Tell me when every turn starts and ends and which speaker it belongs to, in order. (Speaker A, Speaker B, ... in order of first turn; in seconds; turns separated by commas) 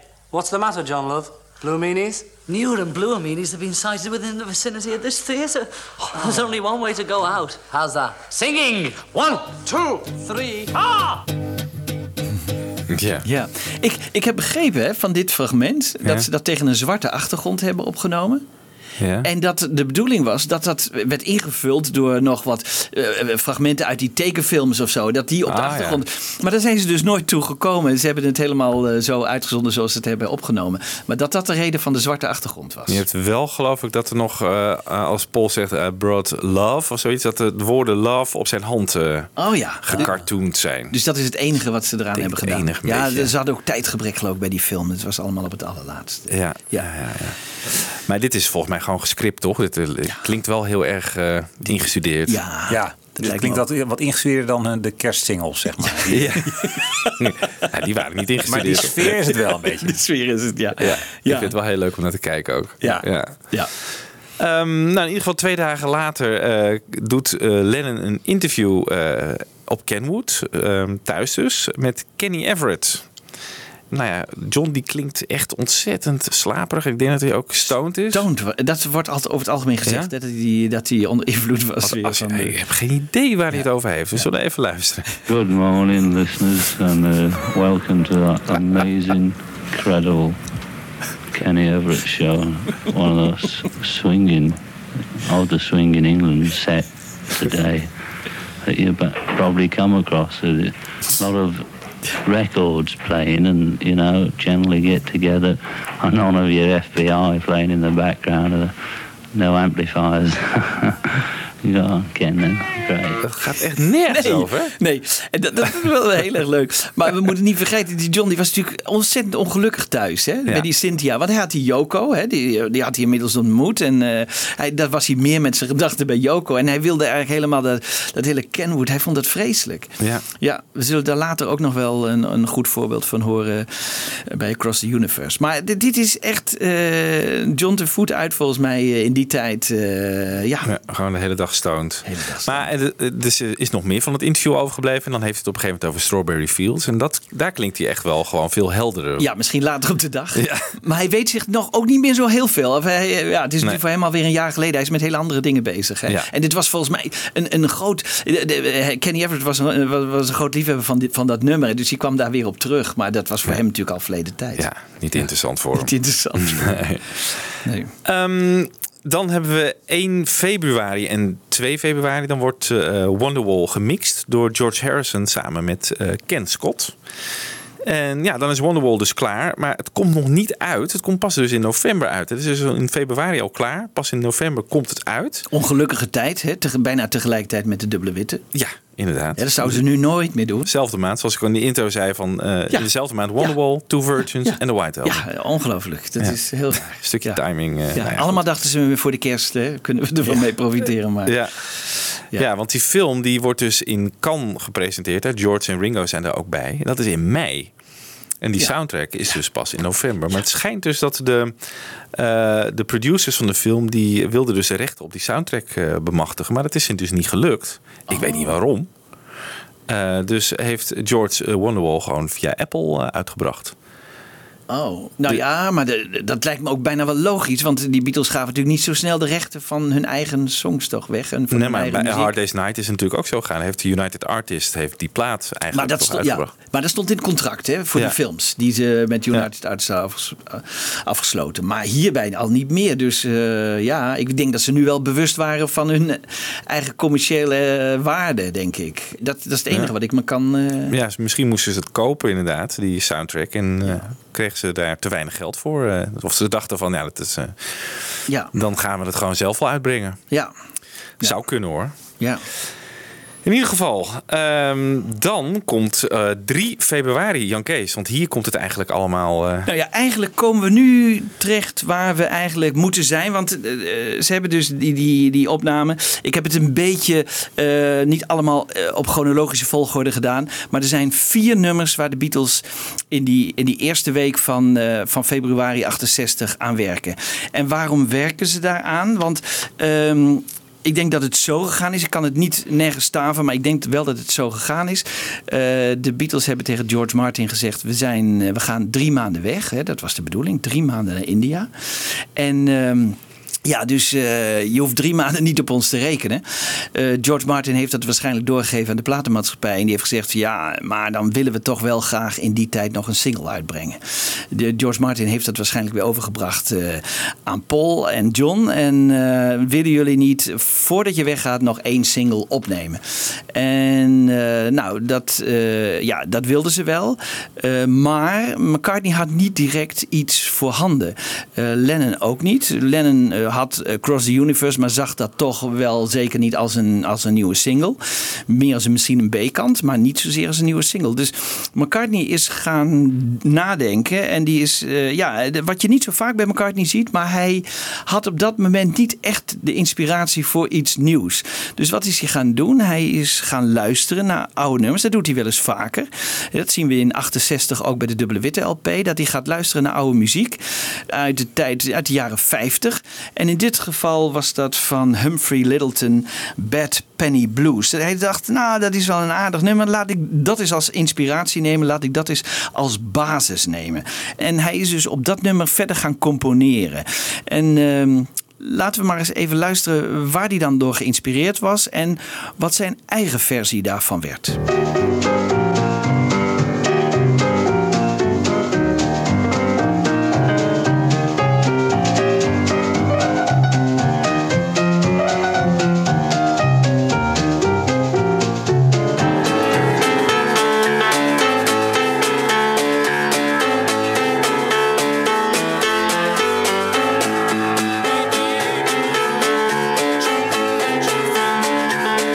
Speaker A: 0.3-2.3, Speaker B: 2.5-5.6, Speaker B: 6.2-8.3, Speaker C: 12.9-13.3, Speaker D: 13.2-18.4, Speaker C: 19.0-19.3, Speaker D: 19.2-33.0, Speaker C: 25.5-26.0, Speaker C: 32.9-40.9, Speaker D: 39.4-40.2, Speaker D: 40.9-46.9, Speaker C: 42.1-43.3, Speaker C: 46.3-52.4, Speaker D: 52.3-53.6, Speaker E: 52.7-56.4, Speaker C: 56.1-56.6, Speaker D: 56.5-57.2, Speaker C: 57.2-59.1, Speaker E: 58.5-60.0, Speaker D: 58.7-61.5, Speaker C: 60.8-63.6, Speaker D: 62.8-63.7, Speaker C: 64.4-73.1, Speaker C: 73.9-78.3, Speaker D: 78.1-82.5, Speaker C: 79.8-80.1, Speaker C: 81.8-85.2, Speaker F: 85.3-90.4, Speaker F: 91.3-94.6, Speaker F: 95.2-97.9, Speaker F: 98.7-101.7, Speaker F: 102.2-108.7, Speaker F: 109.3-113.2, Speaker C: 113.2-114.7, Speaker D: 114.1-140.7, Speaker C: 140.7-149.3, Speaker D: 142.1-142.7, Speaker D: 149.2-166.9, Speaker C: 150.4-150.7, Speaker C: 164.6-167.0, Speaker D: 167.6-167.9, Speaker C: 168.1-176.9, Speaker C: 177.8-185.5, Speaker D: 185.5-188.4, Speaker C: 188.5-189.8, Speaker D: 189.4-190.7, Speaker C: 190.7-195.3, Speaker D: 194.4-197.4, Speaker C: 196.2-198.4, Speaker D: 197.9-201.3, Speaker C: 201.3-201.6, Speaker C: 202.3-207.7, Speaker C: 208.4-211.6, Speaker C: 212.1-218.9, Speaker D: 218.1-218.5, Speaker C: 219.9-223.7, Speaker D: 224.7-232.3, Speaker C: 231.5-236.5, Speaker D: 235.7-250.9, Speaker C: 250.9-260.2, Speaker C: 261.2-261.9, Speaker C: 263.4-269.7, Speaker D: 269.7-301.7, Speaker D: 302.4-323.0, Speaker D: 323.5-384.6